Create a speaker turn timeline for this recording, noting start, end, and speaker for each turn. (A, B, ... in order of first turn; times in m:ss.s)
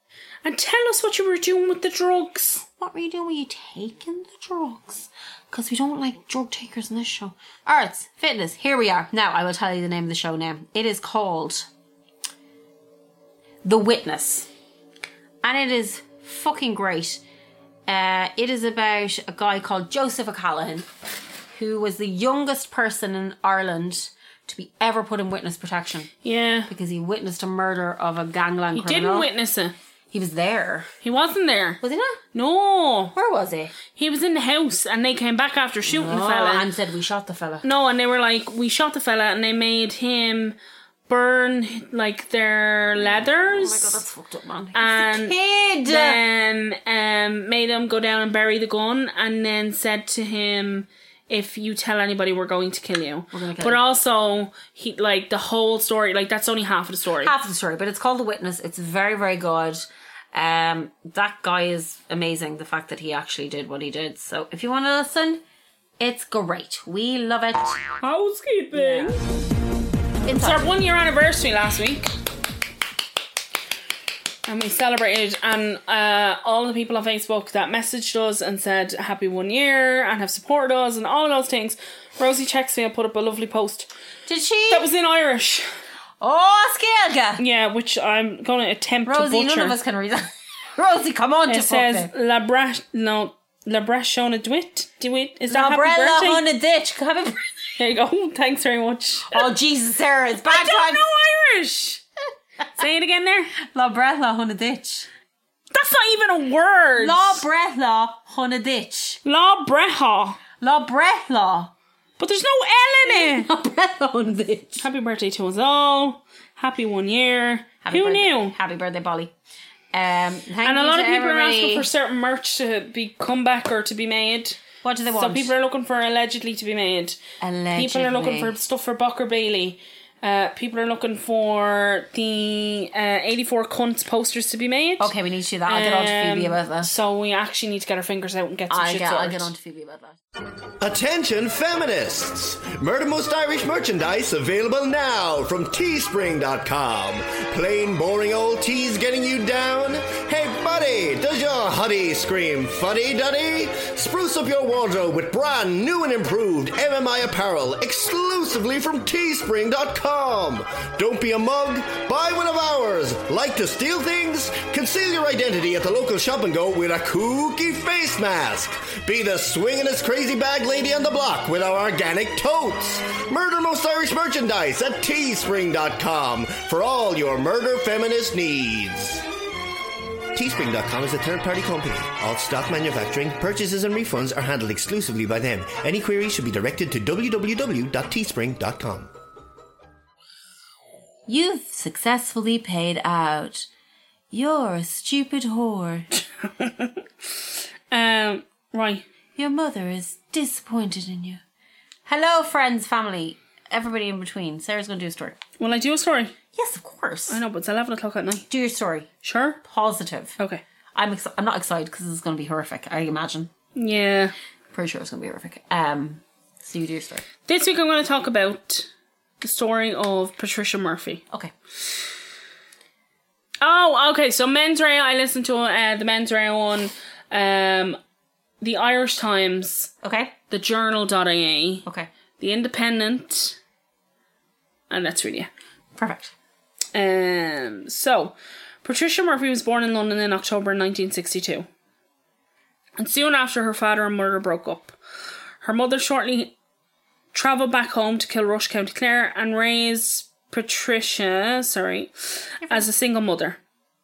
0:00.4-0:02.6 A
0:02.8-0:11.7 B
0:13.6-0:14.5 B
0:15.4-0:17.2 B
0:17.9-0:20.9 B
0:21.5-0:26.1 B
0:26.2-0:26.7 A
0:26.7-0:29.3 B
0:28.7-0:29.8 A
0:30.1-0:30.9 B
0:31.0-0:31.8 A
0:31.8-0:32.2 B
0:32.3-0:33.1 A
0:33.2-0:33.7 B
0:34.0-0:36.7 A
0:35.9-0:37.7 B
0:37.6-0:40.6 A
0:41.1-0:44.0 A
0:43.3-0:46.2 B
0:44.7-0:57.4 A
0:53.3-0:53.8 B
0:57.2-1:05.4 B
1:06.0-1:07.9 B
1:08.0-1:09.2 A
1:08.7-1:09.2 B
1:10.2-1:10.6 B
1:10.3-1:12.1 A
1:14.4-1:23.9 A
1:24.3-1:24.9 B
1:24.7-1:25.7 A
1:26.2-1:27.4 B
1:27.4-1:29.8 A
1:29.1-1:32.1 B
1:31.5-1:36.4 A
1:35.5-1:37.5 B
1:37.8-1:39.5 A
1:39.3-1:41.1 B
1:40.4-1:42.0 A
1:42.8-1:43.5 A
1:43.6-1:45.1 B
1:45.7-1:47.4 A
1:47.0-1:49.2 B
1:49.2-1:50.4 A
1:50.6-1:51.7 B
1:52.2-1:53.5 A
1:53.0-1:54.9 B
1:54.8-1:58.6 A
1:57.8-1:59.3 B
1:59.9-2:01.9 B
2:00.6-2:04.6 A
2:04.8-2:05.5 B
2:05.1-2:07.2 A
2:07.4-2:08.5 B
2:07.7-2:15.1 A
2:15.0-2:16.9 B
2:15.7-2:19.5 A
2:18.7-2:20.2 B
2:20.8-2:59.3 C
3:00.3-3:09.1 C
3:11.3-3:13.7 B
3:14.3-3:16.1 B
3:16.6-3:16.9 A
3:17.9-3:19.1 A
3:19.4-3:21.4 B
3:22.1-3:25.4 B
3:25.6-3:26.3 A
3:26.6-3:27.4 B
3:27.3-3:28.5 A
3:28.5-3:29.1 B
3:29.2-3:29.6 A
3:29.6-3:30.4 B
3:31.0-3:33.5 B
3:33.8-3:34.3 A
3:34.7-3:37.3 B
3:37.5-3:38.9 A
3:39.4-3:41.2 A
3:43.6-3:48.0 A
3:48.6-3:49.9 A
3:50.0-3:50.4 B
3:50.5-3:51.8 A
3:52.4-3:53.6 A
3:54.9-3:55.5 A
3:56.0-3:56.3 B
3:56.9-4:01.7 A
4:03.0-4:05.0 A
4:05.6-4:06.5 A
4:07.3-4:13.6 A